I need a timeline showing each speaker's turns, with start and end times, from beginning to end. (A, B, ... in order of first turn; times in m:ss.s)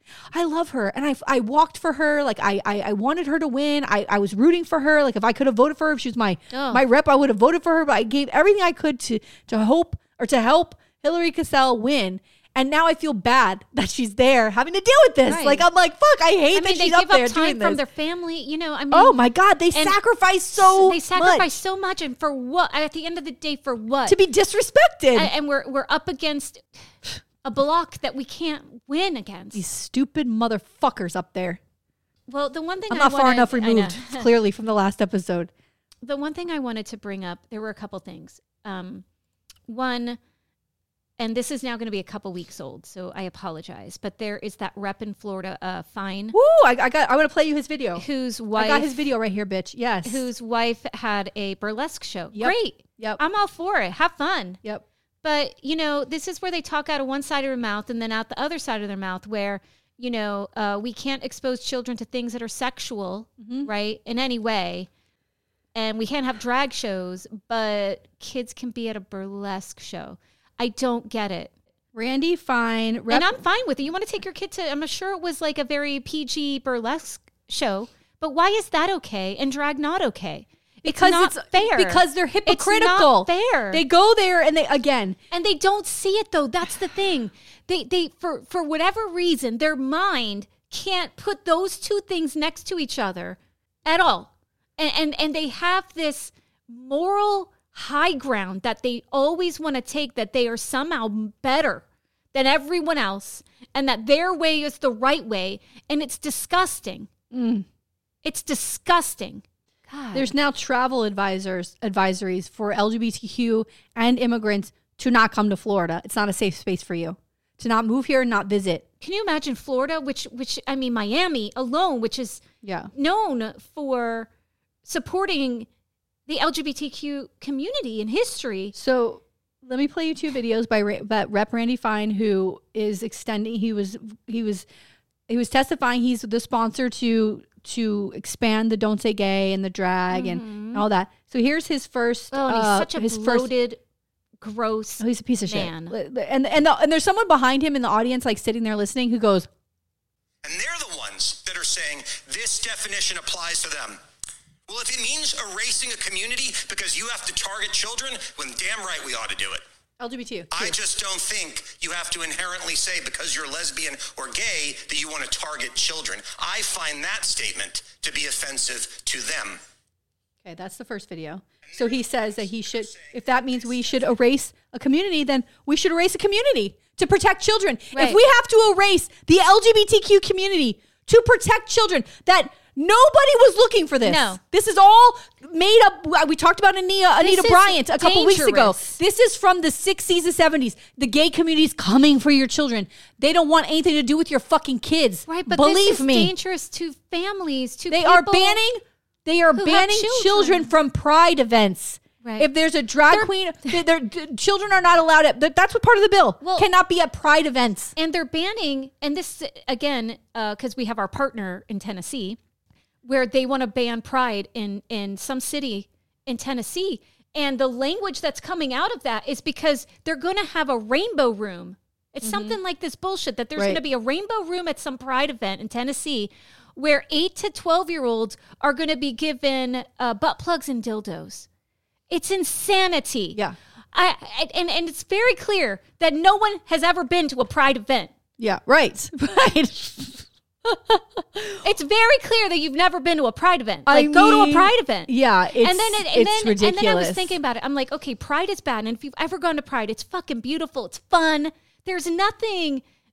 0:00.3-0:17.8 A
0:06.5-0:06.8 B
0:15.3-0:15.6 B
0:16.5-0:19.2 B
0:18.9-0:21.6 A
0:19.7-0:20.0 B
0:20.5-0:24.2 B
0:24.1-0:25.3 A
0:25.1-0:26.6 B
0:27.4-0:29.6 B
0:29.5-0:31.6 A
0:32.3-0:34.3 B
0:32.9-0:35.5 A
0:36.0-0:39.0 B
0:39.7-0:40.2 B
0:41.2-0:46.4 B
0:46.3-0:48.0 A
0:48.0-0:49.0 B
0:48.6-0:50.2 A
0:50.0-0:54.6 B
0:52.3-0:53.2 A
0:55.2-1:04.9 B
1:03.4-1:03.7 A
1:05.8-1:11.5 B
1:11.9-1:13.3 A
1:13.1-1:23.8 B
1:20.8-1:25.2 A
1:25.3-1:47.1 B
1:47.3-1:47.7 A
1:48.2-1:50.3 B
1:50.1-1:58.8 A
1:59.0-2:04.3 B
2:02.6-2:02.9 A
2:04.8-2:05.7 B
2:06.3-2:08.8 B
2:08.8-2:14.7 A
2:15.3-2:23.5 A
2:20.1-2:20.8 B
2:22.3-2:23.8 B
2:24.4-2:26.0 B
2:25.0-2:29.5 A
2:30.4-2:34.0 C
2:34.7-2:39.6 C
2:40.0-2:40.8 A
2:40.5-2:49.6 C
2:50.4-3:16.3 A
2:57.9-2:58.2 B
3:04.0-3:04.4 B
3:07.2-3:09.0 B
3:15.3-3:18.6 B
3:17.9-3:28.0 A
3:19.6-3:20.7 B
3:22.2-3:22.5 B
3:26.4-3:26.7 B
3:28.0-3:32.4 B
3:33.0-3:51.5 B
3:42.2-3:42.6 A
3:52.1-3:53.4 B
3:53.9-3:58.1 B
3:58.4-4:01.6 A
4:01.6-4:12.8 B
4:03.9-4:07.4 A